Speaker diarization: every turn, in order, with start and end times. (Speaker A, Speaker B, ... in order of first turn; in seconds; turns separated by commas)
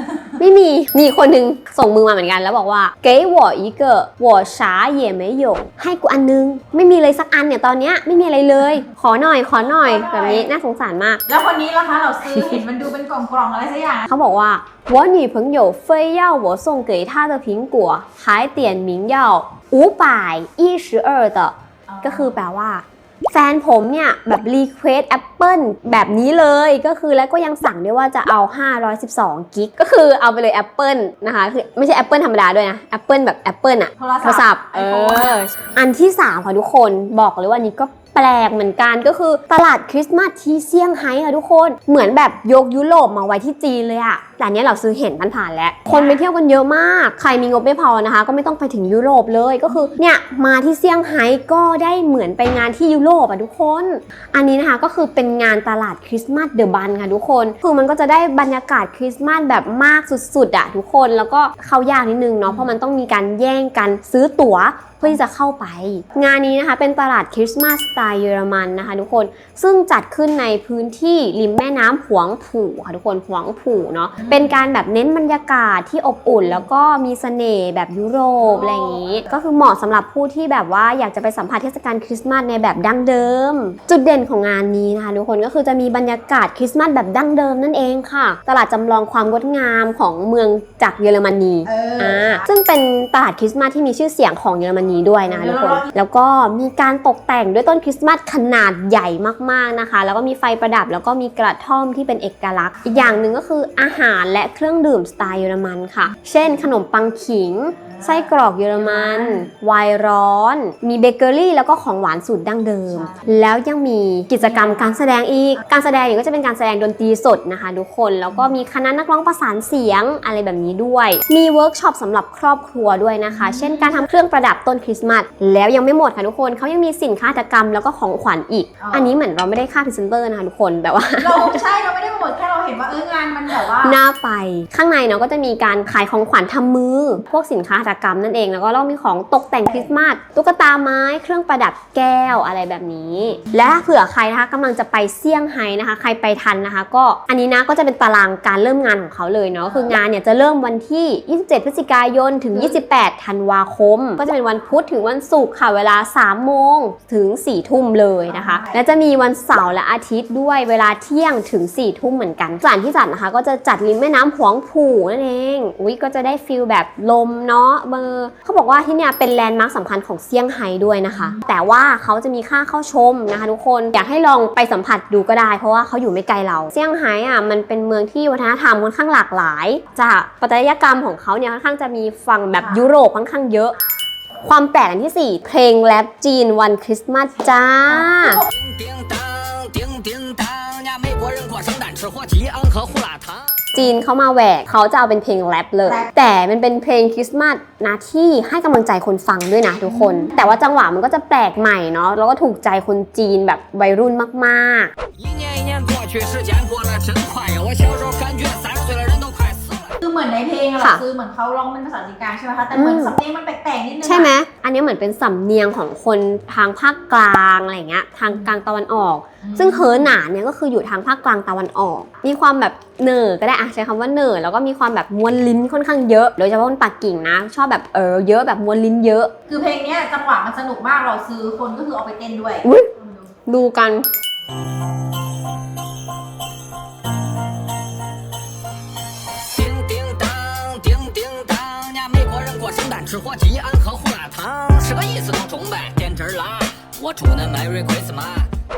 Speaker A: 0.4-11.2, Speaker B: 9.6-10.5, Speaker B: 11.3-14.1, Speaker A: 14.1-131.6, Speaker B: 21.9-22.3, Speaker B: 34.0-35.4, Speaker B: 45.9-46.2, Speaker B: 78.4-79.2, Speaker B: 91.7-92.4, Speaker B: 95.3-95.9, Speaker B: 108.7-109.5, Speaker B: 112.9-113.3, Speaker B: 114.4-114.9, Speaker B: 123.3-124.0, Speaker B: 128.8-129.1, Speaker B: 131.2-134.0, Speaker A: 133.7-183.8, Speaker B: 158.3-158.8, Speaker B: 182.6-182.8, Speaker A: 184.4-188.4, Speaker B: 187.4-188.5, Speaker C: 188.5-193.6, Speaker A: 193.7-204.9, Speaker B: 195.8-196.1, Speaker B: 199.9-200.3, Speaker C: 205.2-210.0, Speaker B: 210.0-214.3, Speaker A: 210.8-211.0, Speaker A: 212.7-213.1, Speaker A: 214.0-229.3, Speaker B: 219.4-220.1, Speaker B: 229.5-233.2, Speaker A: 232.6-232.9, Speaker A: 233.5-234.1, Speaker C: 239.5-248.5